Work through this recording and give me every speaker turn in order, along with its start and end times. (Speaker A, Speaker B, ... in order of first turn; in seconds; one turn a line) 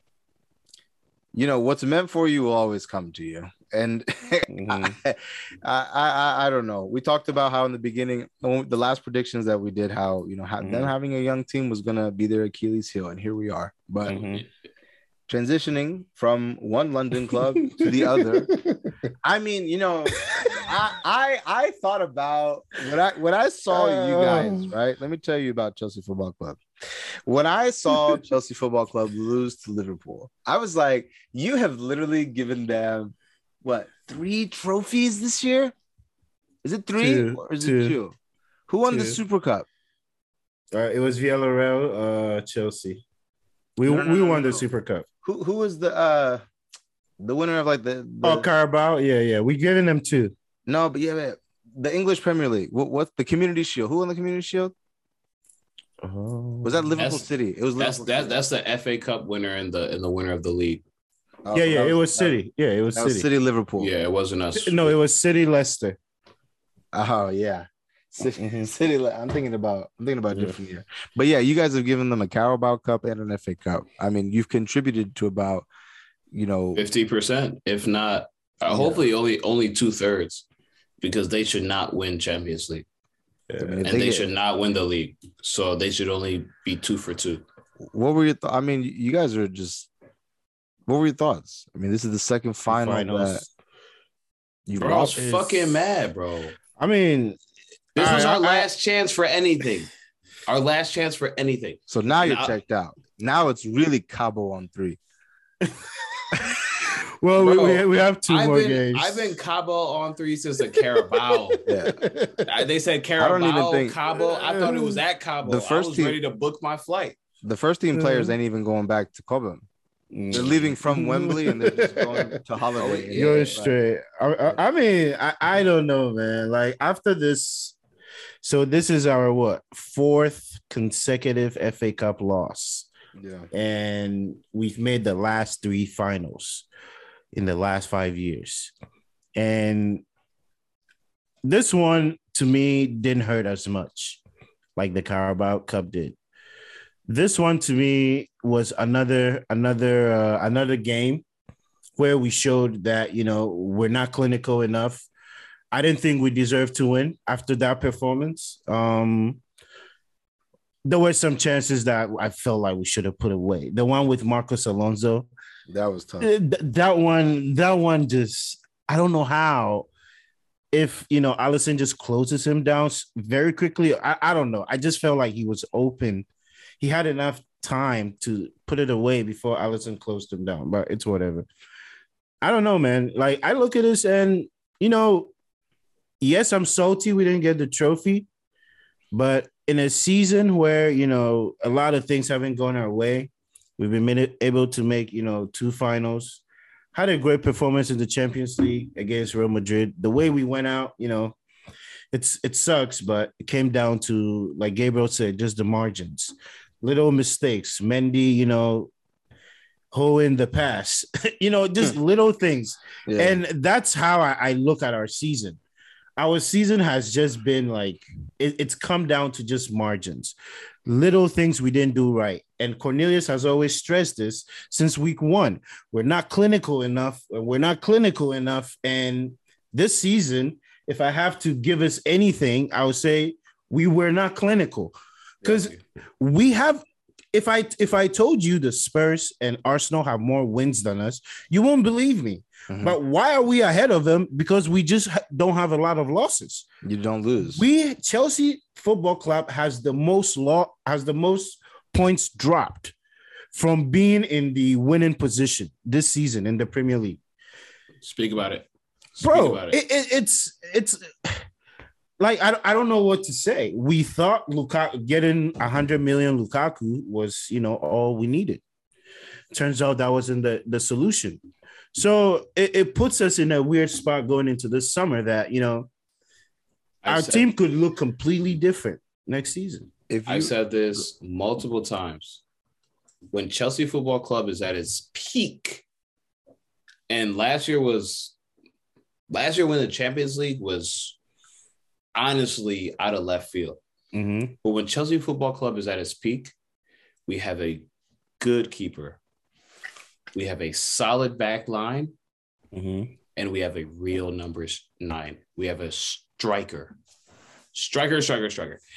Speaker A: 1.3-14.2
Speaker B: 4.5-5.0
Speaker B: 10.6-10.9
Speaker C: 14.1-14.4
Speaker B: 14.1-14.4
Speaker A: 15.3-18.5
Speaker B: 17.6-18.9
Speaker A: 19.2-35.7
Speaker B: 20.2-20.7
Speaker B: 23.7-24.7
Speaker A: 36.6-38.1
Speaker B: 37.0-38.0
Speaker A: 38.7-39.7
Speaker B: 38.9-39.2
Speaker B: 40.7-43.0
Speaker B: 43.8-45.0
Speaker A: 43.8-44.7
Speaker A: 45.2-46.4
Speaker A: 47.2-48.5
Speaker B: 48.2-50.3
Speaker A: 50.7-54.7
Speaker B: 56.0-56.9
Speaker A: 56.6-58.4
Speaker C: 57.0-57.3
Speaker C: 57.8-60.8
Speaker A: 61.5-62.4
Speaker B: 61.5-63.3
Speaker A: 62.9-63.9
Speaker C: 63.8-64.9
Speaker B: 64.5-66.0
Speaker A: 66.9-75.7
Speaker B: 68.4-68.7
Speaker A: 76.3-76.9
Speaker C: 76.8-80.5
Speaker A: 78.7-79.0
Speaker C: 81.0-82.9
Speaker B: 83.5-84.0
Speaker A: 83.6-84.3
Speaker C: 83.9-87.4
Speaker A: 87.9-89.9
Speaker A: 90.9-93.4
Speaker B: 92.7-93.5
Speaker A: 94.7-95.2
Speaker B: 94.8-95.8
Speaker C: 94.8-96.6
Speaker B: 96.8-97.4
Speaker B: 98.0-98.7
Speaker C: 98.0-99.9
Speaker C: 100.5-102.5
Speaker A: 101.9-105.0
Speaker B: 105.6-109.3
Speaker C: 107.4-111.6
Speaker A: 111.7-112.0
Speaker B: 111.8-112.5
Speaker C: 112.5-117.2
Speaker A: 113.2-114.0
Speaker B: 114.2-115.0
Speaker A: 115.4-116.2
Speaker A: 117.4-119.7
Speaker B: 117.9-118.3
Speaker B: 120.1-122.4
Speaker A: 120.3-123.7
Speaker C: 122.8-123.6
Speaker B: 123.1-127.8
Speaker B: 128.4-132.9
Speaker A: 133.2-133.5
Speaker B: 133.5-136.7
Speaker B: 137.3-138.7
Speaker B: 139.3-140.0
Speaker B: 141.4-144.2
Speaker B: 144.8-146.2
Speaker B: 147.1-151.2
Speaker B: 152.0-155.1
Speaker B: 155.7-159.4
Speaker B: 160.8-165.3
Speaker A: 165.7-166.3
Speaker B: 166.2-169.9
Speaker B: 170.7-176.3
Speaker B: 176.8-181.5
Speaker B: 182.4-185.3
Speaker B: 186.2-188.3
Speaker B: 189.1-196.4
Speaker B: 196.9-201.3
Speaker B: 202.1-208.9
Speaker B: 209.9-215.6
Speaker A: 213.1-213.4
Speaker B: 216.2-220.3
Speaker B: 220.9-236.8
Speaker C: 235.4-235.8
Speaker B: 237.3-246.7
Speaker A: 242.7-243.0
Speaker A: 246.8-247.6
Speaker B: 247.5-252.9
Speaker B: 253.5-257.2
Speaker C: 258.0-259.8
Speaker B: 259.2-261.4
Speaker B: 262.2-268.6
Speaker B: 269.5-271.4
Speaker B: 271.9-275.9
Speaker C: 277.0-277.5
Speaker B: 277.1-279.9
Speaker A: 280.1-280.5
Speaker C: 280.3-282.4
Speaker C: 283.3-285.9
Speaker C: 287.1-288.4
Speaker C: 289.3-291.2
Speaker C: 292.1-293.8
Speaker B: 294.1-294.6
Speaker C: 294.6-296.5
Speaker C: 297.3-297.9
Speaker C: 298.4-299.2
Speaker C: 300.3-302.1
Speaker B: 302.7-303.1
Speaker C: 303.4-306.9
Speaker C: 307.7-308.8